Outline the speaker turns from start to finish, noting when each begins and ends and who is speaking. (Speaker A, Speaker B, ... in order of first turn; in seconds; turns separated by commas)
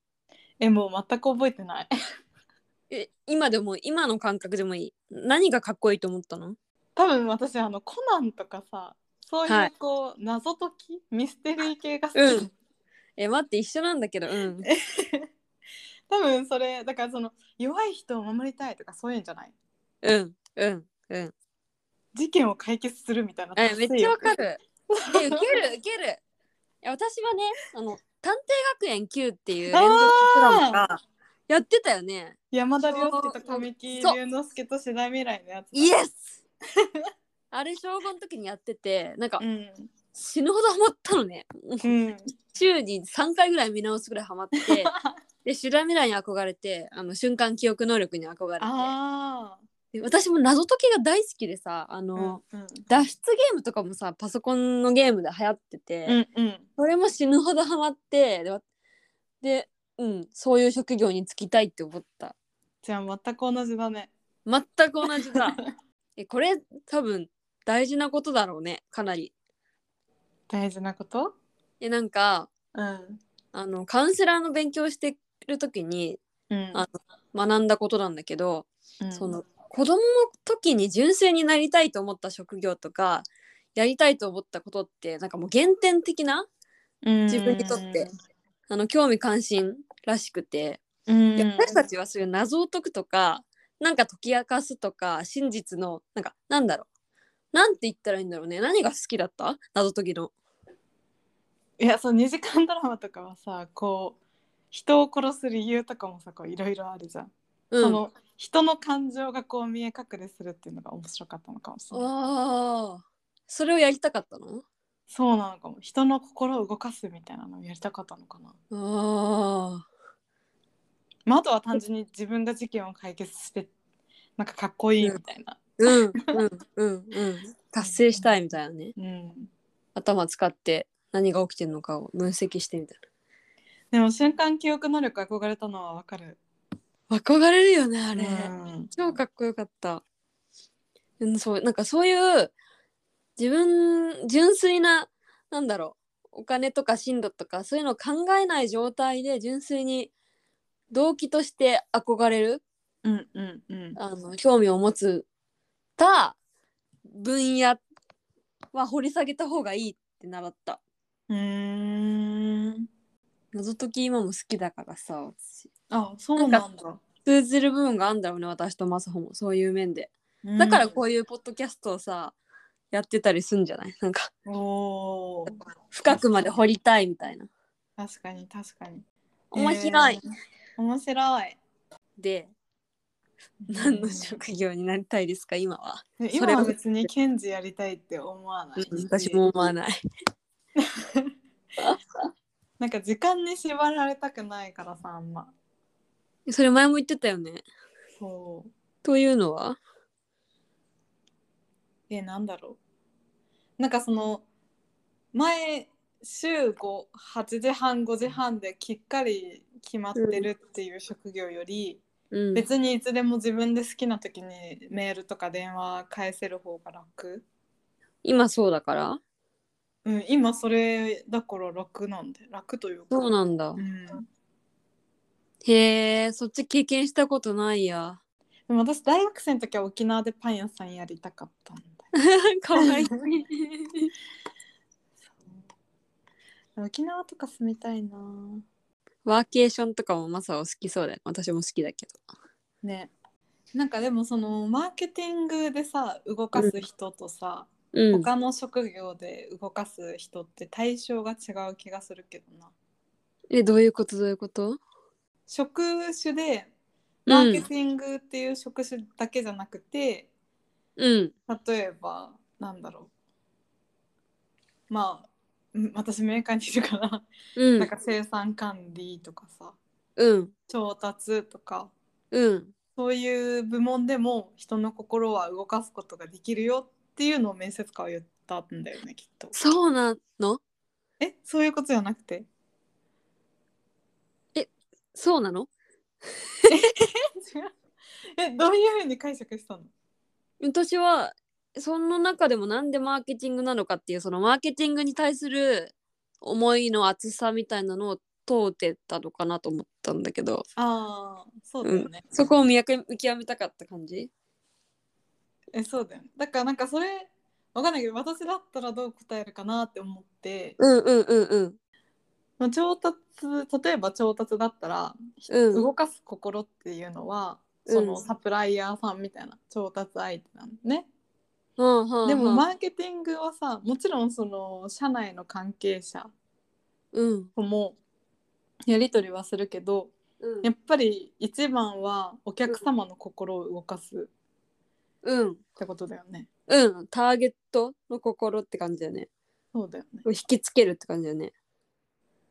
Speaker A: 0.6-1.9, Speaker B: 2.9-6.5, Speaker A: 7.0-12.5, Speaker B: 12.1-12.5, Speaker B: 13.2-14.7, Speaker A: 14.6-15.3, Speaker A: 16.1-19.5, Speaker B: 20.0-21.3, Speaker A: 22.1-24.2, Speaker B: 23.6-24.6, Speaker A: 24.9-25.5, Speaker B: 25.1-26.2, Speaker B: 26.8-34.2, Speaker A: 29.7-30.8, Speaker A: 32.5-35.9, Speaker B: 35.7-36.4, Speaker B: 37.5-39.4, Speaker A: 39.4-39.9, Speaker B: 40.1-41.9, Speaker A: 41.8-42.2, Speaker B: 42.5-44.9, Speaker A: 44.6-45.1, Speaker B: 45.4-48.9, Speaker A: 48.6-49.6, Speaker B: 49.9-56.2, Speaker A: 52.1-52.9, Speaker A: 56.0-56.7, Speaker B: 56.8-58.6, Speaker B: 59.4-62.3, Speaker A: 62.8-64.1, Speaker B: 64.5-65.6, Speaker A: 65.0-65.6, Speaker B: 66.2-69.3, Speaker A: 70.5-71.3, Speaker B: 71.8-72.5, Speaker A: 72.7-73.2, Speaker B: 73.5-76.2, Speaker A: 76.5-76.8, Speaker B: 76.7-86.5, Speaker A: 79.0-79.3, Speaker A: 87.0-88.1, Speaker B: 87.3-88.1, Speaker B: 88.7-90.8, Speaker A: 91.1-91.9, Speaker B: 91.4-96.9, Speaker B: 97.5-100.3, Speaker A: 101.8-104.2, Speaker A: 104.7-112.1, Speaker B: 107.7-108.0, Speaker B: 111.9-114.6, Speaker A: 115.1-118.6, Speaker B: 118.7-119.9, Speaker A: 121.2-123.7, Speaker A: 124.4-126.3, Speaker B: 125.8-128.9, Speaker A: 127.8-128.3, Speaker A: 128.9-129.5, Speaker B: 129.9-133.0, Speaker A: 133.9-136.4, Speaker B: 137.1-140.0, Speaker A: 138.2-138.9, Speaker B: 141.2-142.5, Speaker B: 143.4-150.1, Speaker B: 150.9-152.6, Speaker A: 153.0-154.0, Speaker B: 153.9-155.2, Speaker B: 156.0-156.3, Speaker B: 157.1-157.8, Speaker B: 158.7-160.8, Speaker A: 161.3-162.8, Speaker B: 163.5-165.6, Speaker A: 165.9-167.0, Speaker B: 166.4-166.6, Speaker B: 167.2-172.3, Speaker A: 170.4-170.9, Speaker B: 172.9-174.3, Speaker A: 174.4-175.5, Speaker B: 175.9-177.5, Speaker A: 176.0-176.5, Speaker A: 178.0-180.2, Speaker B: 179.5-180.2, Speaker A: 180.8-181.6, Speaker B: 182.2-182.5, Speaker A: 183.7-184.4, Speaker B: 183.7-186.8, Speaker A: 186.2-189.4, Speaker B: 188.8-190.0, Speaker B: 191.8-192.3, Speaker A: 192.8-195.5, Speaker B: 196.5-197.6, Speaker A: 198.2-198.7, Speaker B: 199.0-199.8, Speaker A: 202.1-202.8, Speaker A: 203.8-204.4, Speaker A: 205.3-212.0, Speaker B: 210.1-210.5, Speaker B: 212.3-212.7, Speaker A: 212.5-217.4, Speaker B: 218.2-219.2, Speaker A: 220.0-224.2, Speaker B: 223.1-223.8, Speaker B: 225.6-228.2, Speaker A: 228.7-232.1, Speaker B: 232.1-234.1, Speaker A: 232.8-233.2, Speaker A: 235.2-235.5, Speaker A: 236.8-238.6, Speaker B: 239.2-242.2, Speaker A: 242.8-243.1, Speaker A: 243.7-252.7, Speaker B: 247.9-248.3, Speaker B: 253.5-254.8, Speaker A: 255.5-256.7, Speaker B: 257.3-257.6, Speaker A: 257.3-260.3, Speaker B: 261.0-261.3, Speaker A: 261.5-263.1, Speaker A: 264.9-269.8, Speaker B: 267.6-267.9, Speaker B: 270.2-270.5, Speaker A: 270.7-271.9, Speaker B: 272.3-272.7, Speaker A: 273.0-279.5, Speaker B: 279.5-280.6, Speaker A: 281.2-282.5, Speaker B: 284.5-285.7, Speaker A: 286.7-287.7, Speaker A: 288.4-289.9, Speaker B: 290.6-300.6, Speaker A: 300.8-302.3, Speaker B: 301.8-304.3, Speaker A: 305.7-310.8, Speaker B: 310.8-311.8, Speaker A: 312.6-321.1, Speaker B: 315.5-315.8, Speaker B: 317.9-318.2, Speaker B: 321.8-322.6, Speaker A: 322.2-326.3, Speaker B: 327.1-327.5, Speaker A: 327.6-328.0, Speaker A: 328.9-334.3, Speaker B: 330.4-330.7, Speaker B: 335.2-335.6, Speaker A: 335.8-336.5, Speaker B: 336.7-339.3, Speaker A: 339.7-340.2, Speaker B: 340.2-341.5